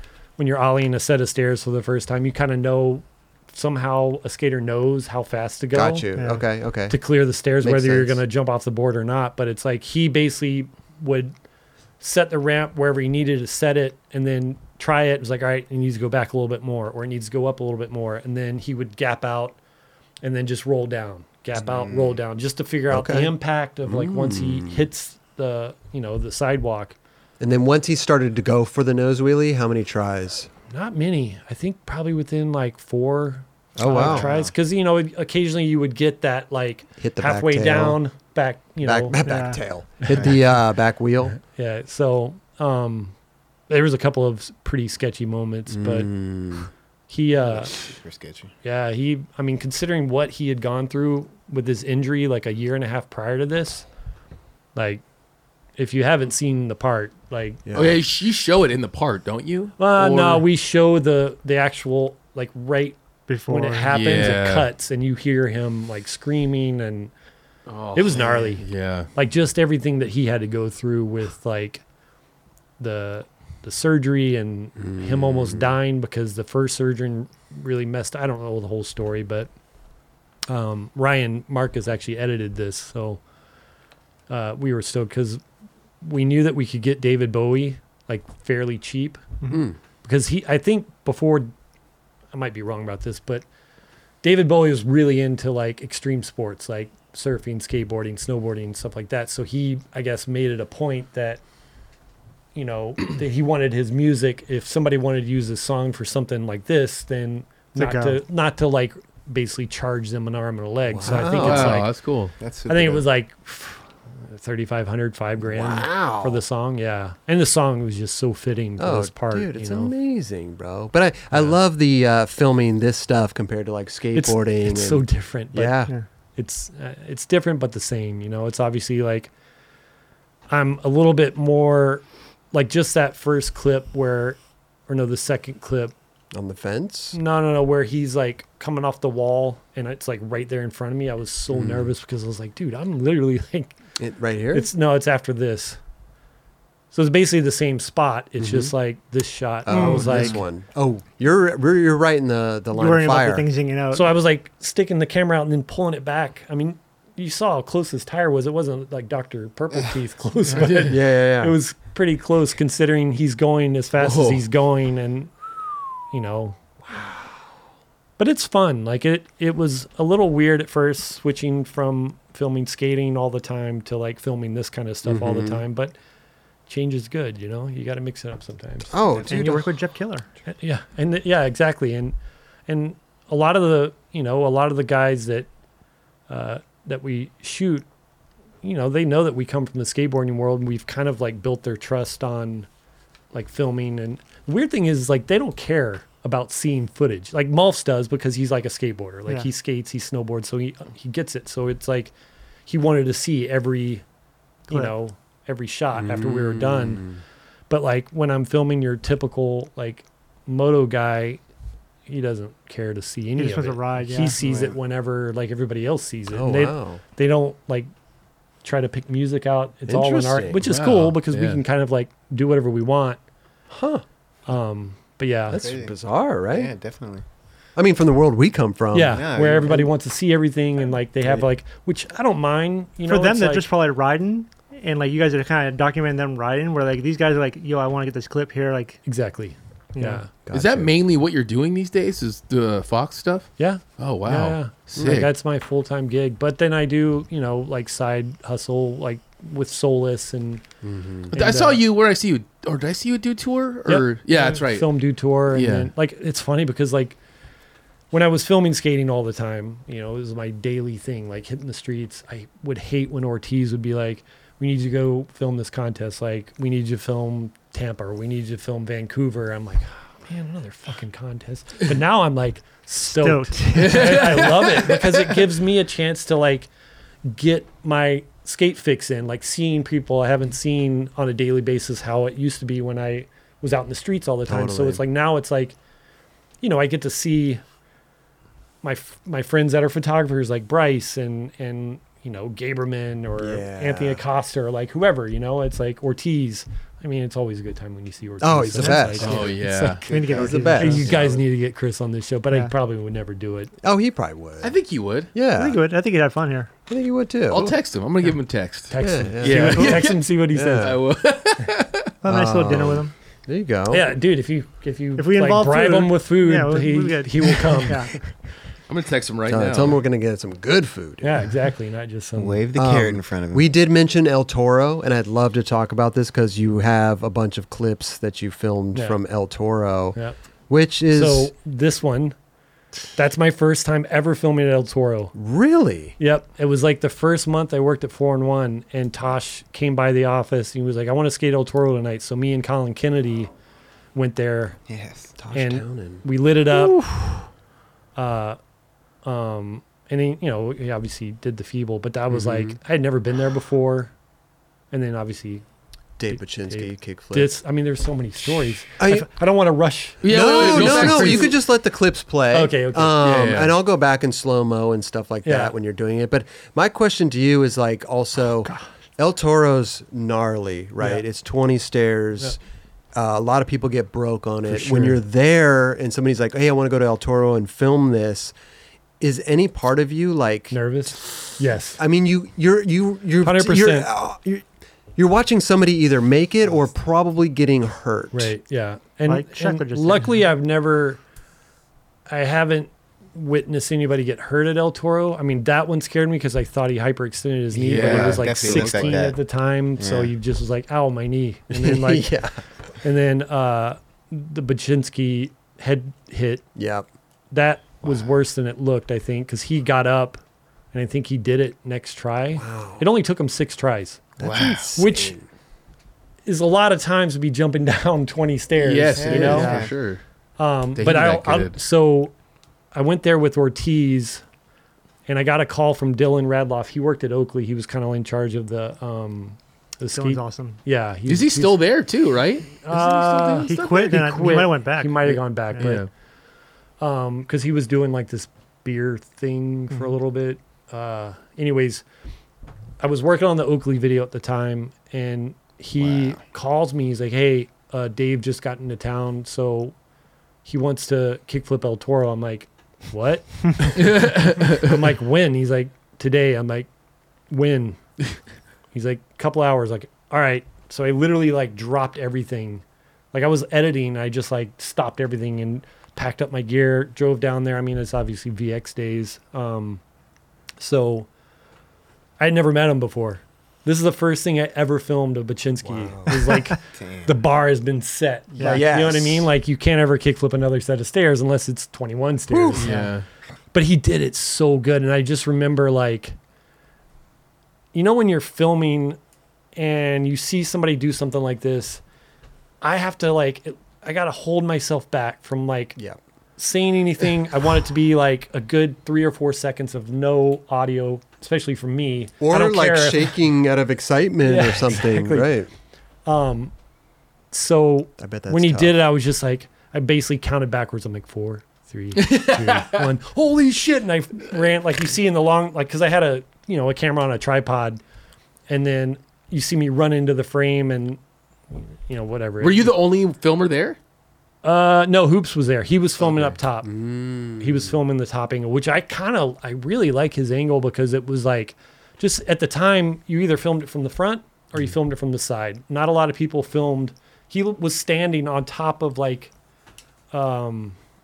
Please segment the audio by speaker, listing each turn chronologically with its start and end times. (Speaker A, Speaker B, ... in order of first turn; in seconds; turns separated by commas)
Speaker A: 0.4-6.1, Speaker B: 5.7-7.0, Speaker C: 6.1-6.4, Speaker A: 6.9-11.3, Speaker B: 7.6-8.2, Speaker A: 12.0-19.6, Speaker A: 20.2-26.9, Speaker B: 22.9-23.3, Speaker B: 23.9-24.8, Speaker B: 27.4-30.5, Speaker A: 30.7-39.2, Speaker B: 33.8-34.4, Speaker B: 37.0-38.0, Speaker B: 38.8-41.4, Speaker C: 39.2-39.6, Speaker A: 40.0-40.4, Speaker A: 41.4-43.1, Speaker A: 43.7-46.1, Speaker B: 45.7-46.7, Speaker A: 47.1-47.7, Speaker D: 47.5-48.5, Speaker A: 48.6-53.9, Speaker A: 54.7-55.0, Speaker A: 55.8-57.6, Speaker B: 57.6-58.0, Speaker E: 57.7-60.5, Speaker A: 59.8-67.1, Speaker C: 63.3-63.9, Speaker E: 63.9-64.7, Speaker E: 67.7-69.1, Speaker A: 67.9-71.8, Speaker A: 72.8-79.5, Speaker B: 74.8-75.7, Speaker A: 80.5-83.2, Speaker A: 84.3-85.4, Speaker A: 86.0-89.2, Speaker B: 89.5-89.8, Speaker A: 90.0-91.5, Speaker A: 92.3-93.4, Speaker A: 94.2-101.4, Speaker A: 102.5-111.9, Speaker C: 107.8-108.2, Speaker B: 110.9-111.8, Speaker E: 111.2-112.3, Speaker D: 112.4-113.0, Speaker A: 112.7-119.9, Speaker B: 115.4-116.4, Speaker B: 118.8-125.9, Speaker A: 124.1-129.3, Speaker A: 130.5-135.9, Speaker B: 136.3-137.2, Speaker A: 137.1-143.7, Speaker B: 141.5-141.9, Speaker B: 144.0-144.7, Speaker A: 144.5-145.8, Speaker A: 146.9-150.4, Speaker B: 148.4-148.7, Speaker B: 149.7-153.5, Speaker C: 149.7-150.3, Speaker C: 152.7-154.1, Speaker A: 153.9-165.3, Speaker E: 160.6-160.9, Speaker B: 160.9-161.5, Speaker E: 164.0-164.4, Speaker A: 166.1-166.6, Speaker B: 166.9-167.3, Speaker A: 168.2-175.9, Speaker B: 175.0-175.6, Speaker A: 176.7-179.0, Speaker B: 178.9-179.7, Speaker C: 179.2-180.3, Speaker A: 180.4-182.2, Speaker A: 182.7-185.5, Speaker A: 186.3-187.8, Speaker A: 188.6-192.7, Speaker A: 193.3-202.1, Speaker A: 202.7-204.0, Speaker A: 204.7-207.1, Speaker B: 205.9-207.2, Speaker A: 207.7-211.4, Speaker A: 212.1-217.9, Speaker C: 213.4-214.4, Speaker D: 214.4-214.8, Speaker B: 216.3-217.0, Speaker A: 218.6-223.2, Speaker B: 219.9-220.6, Speaker E: 220.7-221.6, Speaker B: 223.7-224.0, Speaker A: 224.5-225.7, Speaker B: 225.5-226.7, Speaker D: 225.5-225.9, Speaker D: 226.5-227.2, Speaker B: 227.8-229.9, Speaker A: 228.9-233.7, Speaker D: 229.1-229.9, Speaker C: 233.1-239.0, Speaker A: 239.1-240.3, Speaker C: 239.9-240.2, Speaker B: 240.4-240.9, Speaker E: 240.5-245.3, Speaker A: 243.6-250.6, Speaker B: 250.8-251.3, Speaker A: 251.3-251.8, Speaker E: 251.3-254.9, Speaker A: 253.9-257.2, Speaker E: 255.5-255.9, Speaker A: 258.1-276.7, Speaker C: 273.1-274.5, Speaker E: 273.7-275.3, Speaker A: 277.2-285.8, Speaker B: 284.4-285.0, Speaker A: 286.6-287.6, Speaker A: 288.8-303.7, Speaker B: 293.4-294.2, Speaker B: 298.4-299.5, Speaker E: 299.2-300.0, Speaker C: 300.1-301.2, Speaker B: 300.3-301.4, Speaker B: 303.8-304.8, Speaker E: 304.6-305.3, Speaker B: 305.3-305.8, Speaker C: 305.5-306.7, Speaker B: 306.9-307.7, Speaker E: 307.5-312.1, Speaker A: 308.9-311.0, Speaker B: 309.0-311.0, Speaker C: 312.2-313.1, Speaker B: 312.2-314.1, Speaker A: 313.9-318.1, Speaker C: 315.2-318.2, Speaker E: 318.9-320.0, Speaker B: 319.5-321.4, Speaker A: 321.2-322.6, Speaker D: 322.4-323.6, Speaker B: 322.7-330.2, Speaker A: 328.9-329.2, Speaker B: 330.7-331.5, Speaker A: 331.1-332.3, Speaker A: 333.1-335.3, Speaker B: 335.3-336.1, Speaker A: 336.2-343.5, Speaker A: 344.1-344.8, Speaker D: 344.9-345.3, Speaker B: 345.4-347.4, Speaker A: 345.5-347.0, Speaker A: 348.1-348.6, Speaker A: 349.2-354.1, Speaker B: 352.3-352.8, Speaker A: 354.9-355.6, Speaker B: 356.2-357.5, Speaker A: 356.3-361.5, Speaker B: 359.0-359.3, Speaker E: 360.2-361.5, Speaker B: 360.2-372.6, Speaker A: 362.5-363.2, Speaker E: 363.2-363.7, Speaker A: 365.4-365.7, Speaker B: 373.1-378.5, Speaker A: 374.6-375.2, Speaker B: 379.2-380.8, Speaker A: 380.7-382.0, Speaker B: 382.0-388.5, Speaker A: 383.4-384.1, Speaker A: 388.3-391.2, Speaker C: 389.3-390.3, Speaker A: 392.3-402.3, Speaker E: 397.7-398.6, Speaker D: 398.0-399.4, Speaker B: 398.1-399.2, Speaker D: 400.0-400.3, Speaker B: 401.7-402.6, Speaker A: 403.0-406.6, Speaker B: 406.7-407.1, Speaker A: 407.5-410.4, Speaker A: 410.9-414.4, Speaker B: 412.6-413.1, Speaker B: 414.4-415.5, Speaker D: 414.4-414.9, Speaker A: 414.9-415.4, Speaker A: 416.4-419.8, Speaker E: 418.8-420.2, Speaker D: 419.1-419.9, Speaker B: 419.4-419.8, Speaker A: 420.6-422.3, Speaker E: 421.0-421.7, Speaker A: 422.9-424.4, Speaker A: 425.3-431.8, Speaker C: 430.1-430.8, Speaker E: 431.3-432.8, Speaker A: 432.8-436.1, Speaker C: 432.9-436.0, Speaker E: 433.6-434.1, Speaker E: 435.8-436.1, Speaker A: 437.0-442.0, Speaker A: 443.0-449.9, Speaker D: 446.0-446.3, Speaker A: 450.6-456.9, Speaker E: 453.9-455.0, Speaker A: 457.5-458.0, Speaker A: 458.9-470.0, Speaker A: 470.8-471.3, Speaker A: 472.4-483.1, Speaker B: 475.8-476.5, Speaker D: 476.9-477.3, Speaker B: 478.6-479.5, Speaker B: 482.5-482.9, Speaker E: 482.8-483.2, Speaker A: 483.7-486.4, Speaker A: 487.9-489.2, Speaker A: 489.8-492.0, Speaker A: 492.8-496.0, Speaker A: 496.6-503.3, Speaker B: 502.4-505.7, Speaker A: 504.4-505.5, Speaker A: 506.2-506.7, Speaker A: 507.5-518.0, Speaker B: 508.2-509.0, Speaker E: 512.1-513.0, Speaker A: 518.7-521.2, Speaker A: 521.7-522.9, Speaker E: 522.6-524.0, Speaker A: 524.6-526.9, Speaker B: 526.8-527.9, Speaker A: 527.6-539.5, Speaker A: 540.3-541.0